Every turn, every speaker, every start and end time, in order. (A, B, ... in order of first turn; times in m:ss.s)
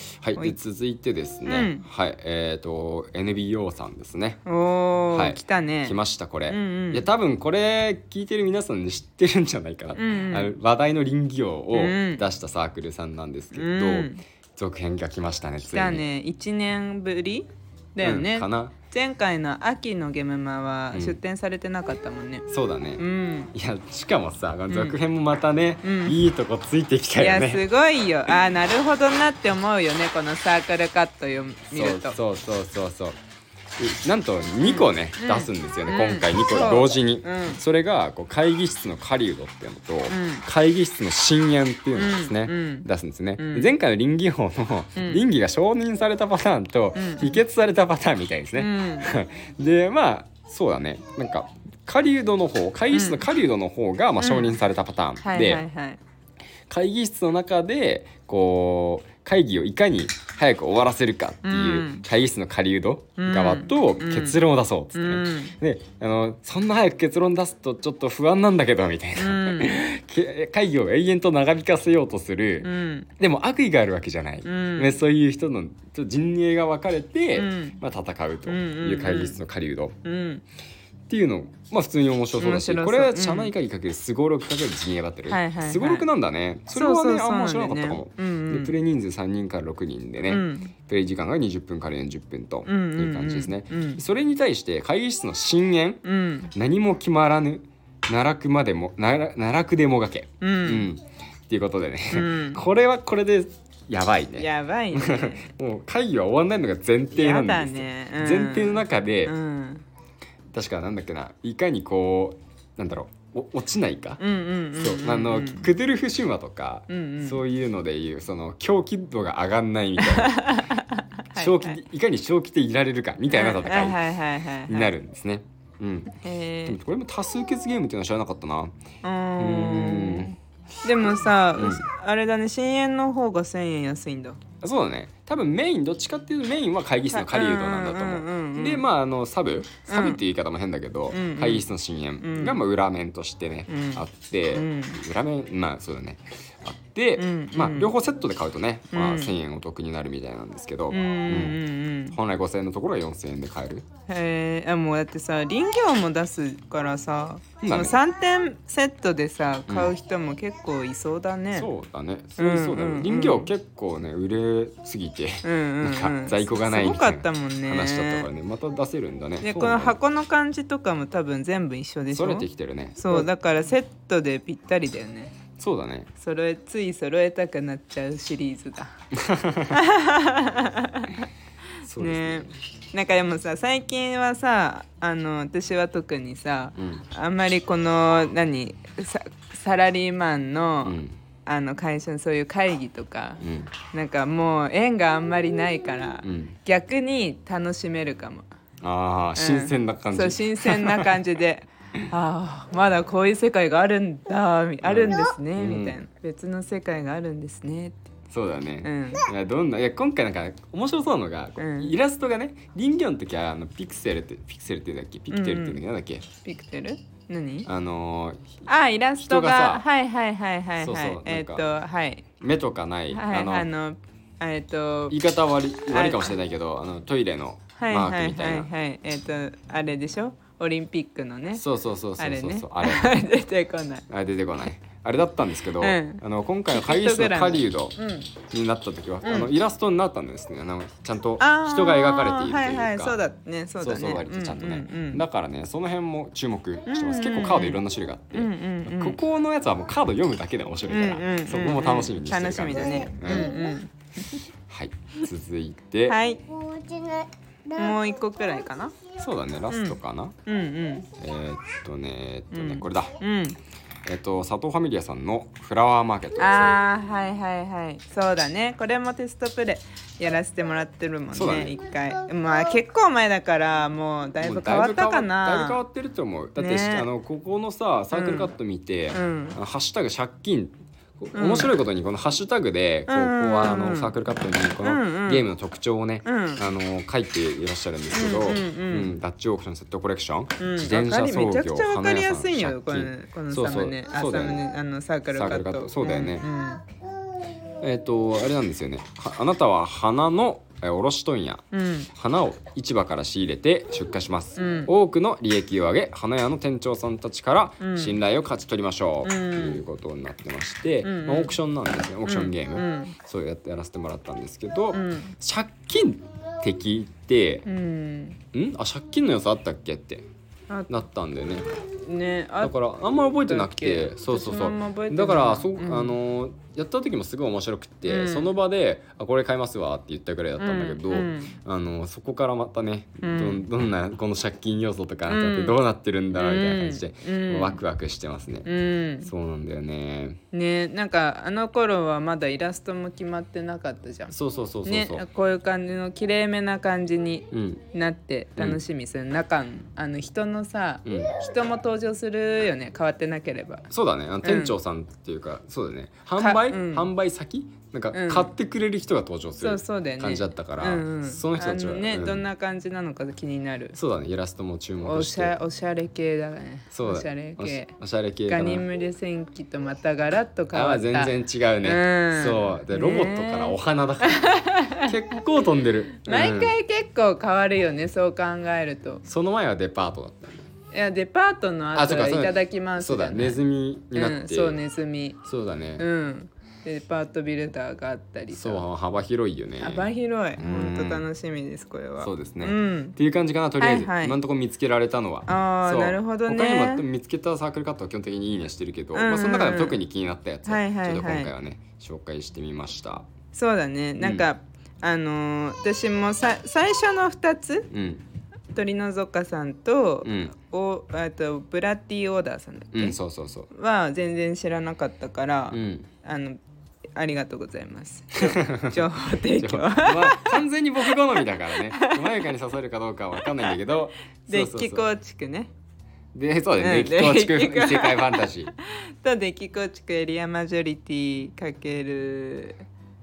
0:00.2-0:04.4 A
0:01.4-0:01.8 B
0:04.4-0:06.0 B
0:05.1-0:16.0 A
0:06.5-0:07.0 B
0:10.0-0:10.5 B
0:11.7-0:12.2 B
0:13.5-0:14.2 B
0:15.6-0:22.4 B
0:18.0-0:18.7 A
0:20.9-0:21.2 A
0:22.5-0:27.6 A
0:23.0-0:23.5 B
0:24.7-0:25.0 B
0:25.8-0:26.2 B
0:27.2-0:32.2 B
0:31.7-0:33.2 A
0:33.8-0:55.6 A
0:34.6-0:37.6 B
0:40.1-0:40.4 B
0:42.0-0:42.8 B
0:43.4-0:43.7 B
0:47.0-0:47.4 B
0:48.6-0:49.1 B
0:52.9-0:53.2 B
0:54.2-0:54.5 B
0:55.2-0:56.0 B
0:56.7-1:20.0 A
1:01.4-1:02.0 B
1:03.2-1:04.4 B
1:04.9-1:05.5 B
1:09.2-1:09.8 B
1:12.6-1:13.1 B
1:14.4-1:15.0 B
1:17.4-1:17.8 B
1:18.5-1:19.4 B
1:20.0-1:20.4 B
1:21.1-1:49.3 A
1:22.4-1:23.5 B
1:25.3-1:26.1 B
1:26.7-1:28.7 B
1:30.3-1:30.7 B
1:32.6-1:34.0 B
1:36.0-1:36.5 B
1:40.4-1:40.9 B
1:42.1-1:42.6 B
1:44.4-1:45.5 B
1:47.1-1:49.8 B
1:50.5-1:54.2 A
1:54.2-1:55.7 B
1:54.8-2:00.5 A
1:56.9-1:57.4 B
2:00.0-2:01.8 B
2:01.3-2:04.0 A
2:03.3-2:04.9 B
2:04.7-2:06.1 A
2:06.2-2:06.8 B
2:06.6-2:08.7 A
2:09.0-2:14.4 B
2:09.4-2:10.4 A
2:11.6-2:11.8 A
2:14.6-2:31.6 A
2:17.1-2:18.9 B
2:19.9-2:20.2 B
2:21.1-2:21.7 B
2:22.2-2:22.6 B
2:23.7-2:25.0 B
2:27.2-2:27.9 B
2:28.9-2:29.3 B
2:30.9-2:32.2 B
2:32.1-2:33.8 A
2:34.1-2:41.7 B
2:37.6-2:38.0 A
2:41.5-2:50.0 A
2:42.4-2:43.5 B
2:45.4-2:48.3 B
2:49.4-2:55.3 B
2:52.1-2:53.3 A
2:55.6-2:56.1 A
2:56.2-2:58.9 B
2:59.2-2:59.8 A
2:59.7-3:01.2 B
3:01.8-3:02.5 A
3:02.0-3:18.5 B
3:06.8-3:07.1 A
3:10.8-3:11.2 A
3:13.4-3:13.7 A
3:16.2-3:16.6 A
3:18.8-3:21.1 A
3:19.4-3:28.0 B
3:24.8-3:26.0 A
3:28.3-3:36.2 A
3:28.8-3:29.2 B
3:31.6-3:31.9 B
3:35.3-3:35.8 B
3:36.4-3:37.7 B
3:37.6-3:38.6 A
3:38.6-3:42.2 B
3:39.2-3:39.8 A
3:40.8-3:41.7 A
3:42.4-3:43.7 A
3:43.1-3:45.2 B
3:45.1-3:48.7 A
3:45.9-3:46.3 B
3:47.8-3:51.6 B
3:51.5-3:53.2 A
3:52.2-3:54.0 B
3:54.1-4:03.2 A
3:55.8-3:58.3 B
3:59.2-3:59.5 B
4:01.4-4:05.2 B
4:03.8-4:13.5 A
4:06.9-4:07.8 B
4:08.3-4:09.2 B
4:10.9-4:13.9 B
4:14.7-4:16.2 A
4:16.1-4:16.5 B
4:17.7-4:18.9 B
4:19.1-4:20.3 A
4:19.7-4:21.1 B
4:21.2-4:23.2 A
4:22.5-4:23.6 B
4:24.0-4:26.8 A
4:26.4-4:35.8 B
4:31.3-4:31.7 A
4:34.4-4:54.6 A
4:36.6-4:37.0 B
4:38.1-4:38.5 B
4:39.1-4:39.6 B
4:41.3-4:41.7 B
4:43.1-4:44.2 B
4:44.8-4:45.4 B
4:46.2-4:46.6 B
4:48.1-4:49.1 B
4:50.6-4:56.8 B
4:55.3-4:56.4 A
4:57.8-5:17.7 A
5:01.7-5:02.1 B
5:04.6-5:04.9 B
5:07.8-5:08.2 B
5:09.2-5:09.8 B
5:11.0-5:11.5 B
5:12.2-5:13.1 B
5:14.9-5:15.3 B
5:17.6-5:18.4 B
5:18.5-5:20.2 A
5:20.9-5:21.8 A
5:22.0-5:26.1 B
5:22.6-5:38.7 A
5:28.0-5:28.5 B
5:30.6-5:31.6 B
5:33.2-5:33.6 B
5:35.3-5:35.8 B
5:36.3-5:37.8 B
5:38.6-5:39.3 B
5:39.2-5:40.4 A
5:40.5-5:44.3 B
5:44.3-5:45.2 A
5:44.8-5:53.8 B
5:47.5-5:47.8 A
5:51.0-5:51.3 A
5:53.9-6:02.4 A
5:54.4-5:54.7 B
5:56.4-5:57.1 B
5:58.1-5:58.5 B
5:59.6-6:04.0 B
6:03.9-6:05.5 A
6:05.0-6:07.9 B
6:06.9-6:08.9 A
6:08.5-6:15.1 B
6:10.7-6:16.7 A
6:16.2-6:19.2 B
6:19.2-6:20.7 A
6:20.9-6:23.6 B
6:21.9-6:24.8 A
6:24.1-6:25.4 B
6:25.4-6:26.0 A
6:26.0-6:28.8 B
6:28.5-6:31.2 A
6:29.8-6:33.1 B
6:32.2-6:43.3 A
6:33.8-6:34.3 B
6:35.5-6:37.0 B
6:39.1-6:40.0 B
6:40.6-6:41.5 B
6:43.5-6:47.9 B
6:44.2-6:44.5 A
6:47.9-6:48.2 A
6:48.7-6:53.2 B
6:50.2-6:50.5 A
6:52.9-6:53.7 A
6:53.7-6:56.6 B
6:55.7-6:56.1 A
6:57.1-7:00.6 B
6:58.4-6:59.0 A
6:59.5-7:05.1 A
7:01.9-7:02.2 B
7:04.5-7:05.7 B
7:06.3-7:08.7 A
7:06.8-7:12.8 B